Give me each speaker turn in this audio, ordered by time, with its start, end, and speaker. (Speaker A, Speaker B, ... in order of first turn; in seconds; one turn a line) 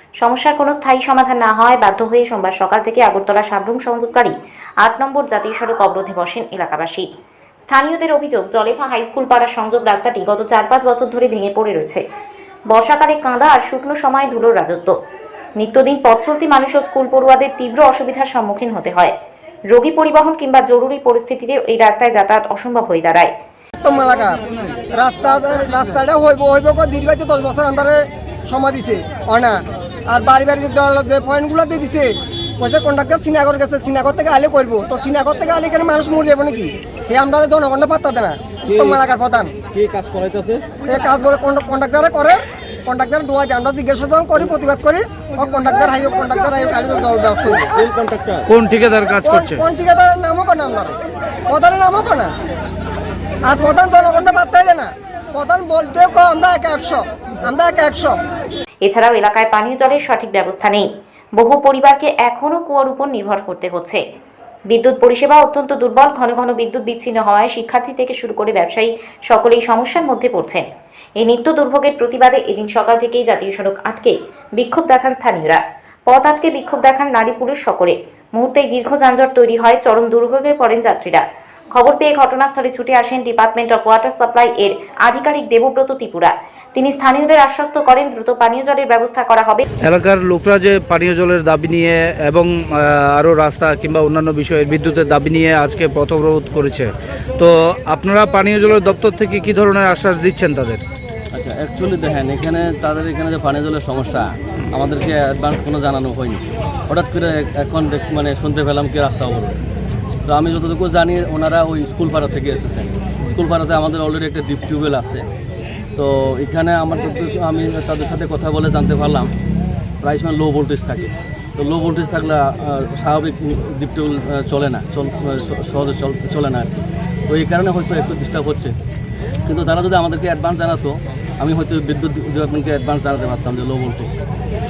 Speaker A: 0.2-7.1
Speaker A: 7.7-12.0
Speaker A: 12.7-14.9
Speaker A: 15.6-19.1
Speaker A: 19.7-23.3
Speaker B: 23.8-39.5
Speaker C: 38.7-39.0
Speaker C: 39.6-40.7
Speaker B: 40.8-47.6
Speaker C: 47.6-48.5
Speaker D: 48.5-49.6
Speaker B: 49.2-51.0
Speaker B: 51.5-52.3
Speaker B: 53.4-58.2
Speaker A: 58.8-60.9
Speaker A: 61.4-64.0
Speaker A: 64.7-70.7
Speaker A: 71.2-89.7
Speaker D: 89.8-100.8
Speaker E: 101.3-109.6
Speaker E: 110.3-115.2
Speaker E: 116.0-119.3
Speaker E: 120.0-128.7
Speaker E: 129.4-134.2